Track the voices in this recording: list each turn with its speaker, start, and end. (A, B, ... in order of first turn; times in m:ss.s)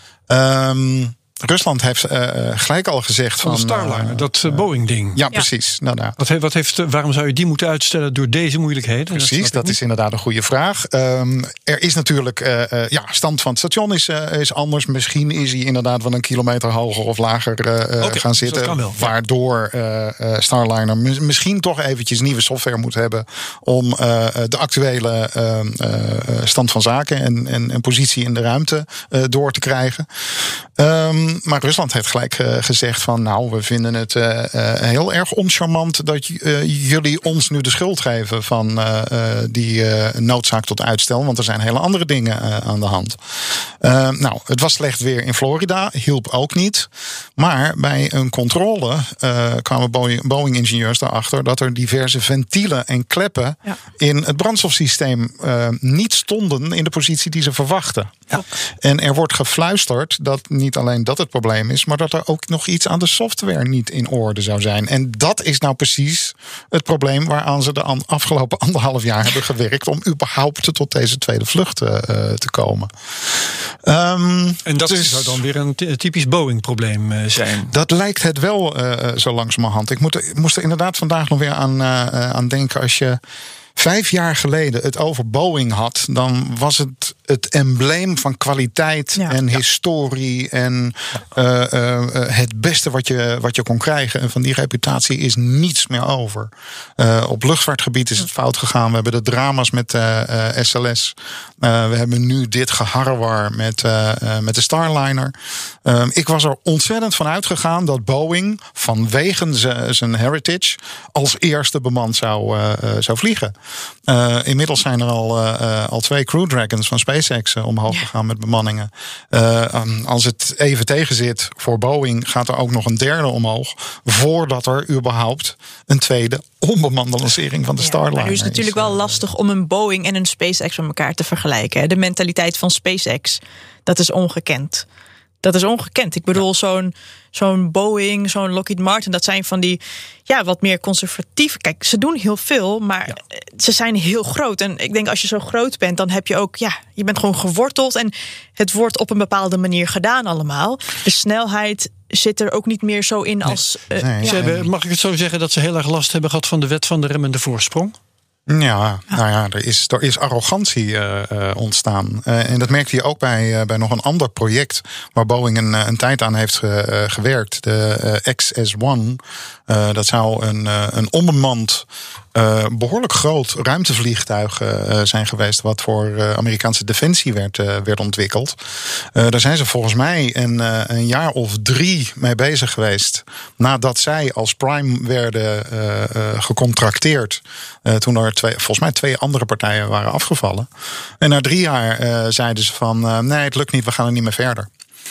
0:00.3-0:06.2 A
0:03.4-0:05.2 B
0:06.2-0:09.8 B
0:09.1-1:15.4 A
0:18.0-0:19.2 B
1:14.7-1:17.7 B
1:17.7-1:23.2 A
1:23.8-1:45.3 A
1:45.8-1:53.5 A
1:54.1-2:09.2 A
2:07.8-2:14.8 C
2:15.4-2:34.4 C
2:34.0-2:34.7 A
2:34.2-2:38.0 B
2:38.5-2:58.6 A
2:59.2-3:10.7 A
3:11.2-3:14.7 A